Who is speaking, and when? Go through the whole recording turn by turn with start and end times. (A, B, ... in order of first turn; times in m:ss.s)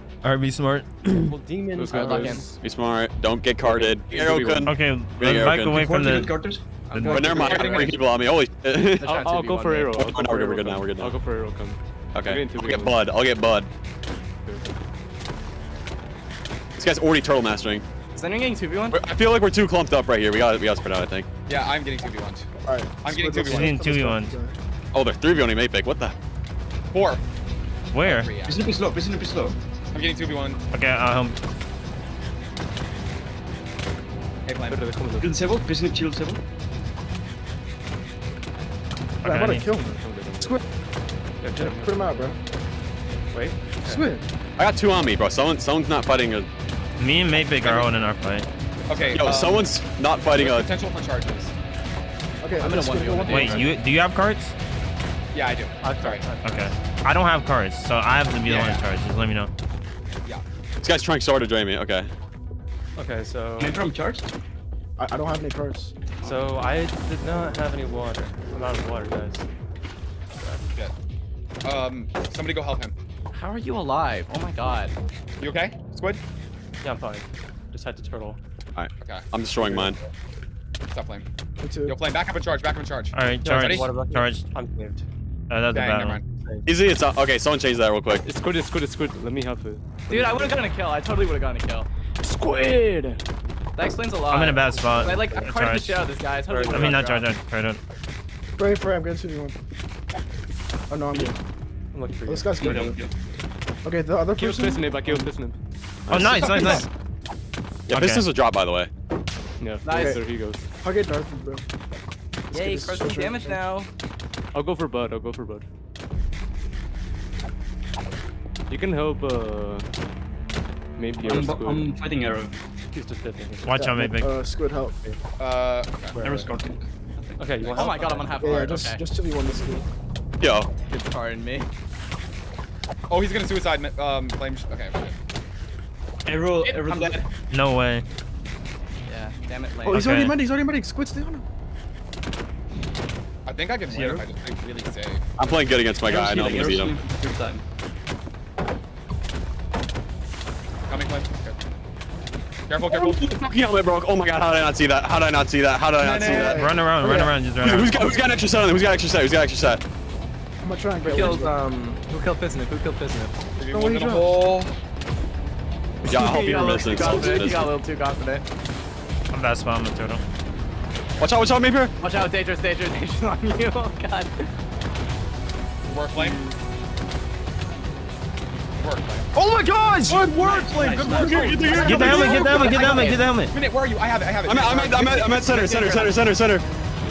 0:00.2-0:01.3 A
0:01.1-0:02.6 B
0:01.8-0:02.5 C
0:01.8-0:02.4 D
0:02.6-0:05.8 E
0:03.6-0:04.8 B
0:04.6-0:06.3 A
0:05.6-0:07.9 F
0:06.9-0:08.0 D
0:07.0-0:09.2 E
0:07.4-0:07.8 G
0:09.0-0:10.1 D
0:09.0-0:13.1 B
0:10.0-0:11.2 E
0:12.1-0:13.7 E
0:16.8-0:17.8 E
0:18.1-0:19.0 D
0:18.9-0:21.3 E
0:21.5-0:22.5 G
0:22.6-0:24.6 C
0:23.0-0:23.8 G
0:23.4-0:24.3 A
0:24.9-0:26.1 E
0:26.9-0:27.2 G
0:27.9-0:28.3 A
0:28.0-0:28.6 G
0:28.4-0:29.6 F
0:29.9-0:30.6 G
0:30.7-0:31.4 A
0:34.4-0:36.4 F
0:34.7-0:35.4 B
0:39.2-0:39.7 A
0:39.2-0:40.6 C
0:39.8-0:40.6 B
0:41.4-0:42.2 B
0:41.5-0:42.4 C
0:43.3-0:44.1 B
0:43.8-0:44.2 C
0:44.6-0:46.5 E
0:47.0-0:48.5 A
0:47.6-0:47.9 G
0:48.9-0:49.7 G
0:49.1-0:50.7 E
0:50.3-0:51.5 G
0:52.4-0:53.7 C
0:52.6-0:53.7 D
0:53.3-0:54.6 A
0:55.3-0:56.3 G
0:55.8-0:56.8 B
0:56.4-0:59.5 A
0:58.4-0:58.8 G
1:00.8-1:02.1 E
1:03.0-1:03.8 B
1:03.6-1:04.3 F
1:05.0-1:05.9 C
1:06.2-1:06.5 F
1:06.2-1:09.4 B
1:11.6-1:12.9 G
1:13.3-1:14.9 D
1:15.4-1:16.2 G
1:16.8-1:18.4 B
1:18.8-1:20.0 E
1:19.0-1:19.3 G
1:20.9-1:21.3 G
1:21.6-1:22.0 C
1:21.9-1:24.0 G
1:23.1-1:24.4 A
1:23.4-1:25.0 B
1:25.5-1:26.2 A
1:25.7-1:26.2 G
1:26.4-1:26.7 B
1:26.7-1:28.2 E
1:28.2-1:30.7 B
1:30.1-1:31.9 D
1:32.2-1:33.2 B
1:33.8-1:37.3 D
1:34.3-1:36.0 A
1:34.5-1:35.6 B
1:36.5-1:37.1 B
1:36.7-1:37.8 A
1:38.6-1:39.6 C
1:40.9-1:41.4 C
1:41.9-1:43.0 B
1:42.2-1:43.0 C
1:42.6-1:43.1 F
1:43.8-1:45.3 C
1:44.3-1:45.6 B
1:46.1-1:46.8 E
1:46.1-1:46.9 A
1:46.3-1:46.8 F
1:47.9-1:48.9 E
1:47.9-1:48.2 A
1:49.6-1:50.6 B
1:49.8-1:50.2 D
1:49.9-1:50.2 C
1:50.8-1:51.7 C
1:52.5-1:53.9 D
1:52.5-1:53.6 C
1:54.5-1:55.7 B
1:58.7-1:59.9 B
2:01.0-2:02.0 B
2:01.2-2:02.6 F
2:02.9-2:03.7 B
2:03.6-2:04.3 A
2:03.7-2:05.0 C
2:05.4-2:06.2 G
2:06.2-2:08.4 F
2:07.4-2:08.7 B
2:07.7-2:09.1 D
2:08.4-2:09.9 C
2:10.4-2:10.7 E
2:10.9-2:11.7 D
2:13.1-2:15.2 G
2:16.2-2:17.2 F
2:16.6-2:17.3 G
2:17.5-2:18.0 A
2:19.1-2:20.3 D
2:19.8-2:21.4 C
2:19.9-2:20.4 A
2:23.4-2:25.2 G
2:23.9-2:24.2 F
2:25.4-2:27.0 E
2:26.0-2:27.6 F
2:30.9-2:31.6 G
2:32.7-2:33.3 G
2:32.9-2:36.6 E
2:36.0-2:36.7 G
2:36.2-2:37.4 C
2:36.5-2:38.2 A
2:37.6-2:39.8 E
2:40.6-2:41.6 C
2:41.0-2:43.3 D
2:41.1-2:41.4 B
2:43.6-2:44.7 G
2:43.7-2:44.6 C
2:46.0-2:48.4 D
2:46.1-2:47.7 E
2:49.3-2:50.2 A
2:51.2-2:51.9 E
2:52.0-2:54.5 D
2:55.8-2:56.4 G
2:58.8-2:59.3 G
2:59.4-3:03.0 E
2:59.6-3:00.2 C
3:00.1-3:02.3 F
3:00.4-3:06.1 G
3:01.2-3:01.9 C
3:01.8-3:03.5 A
3:02.7-3:03.2 D
3:04.4-3:06.6 E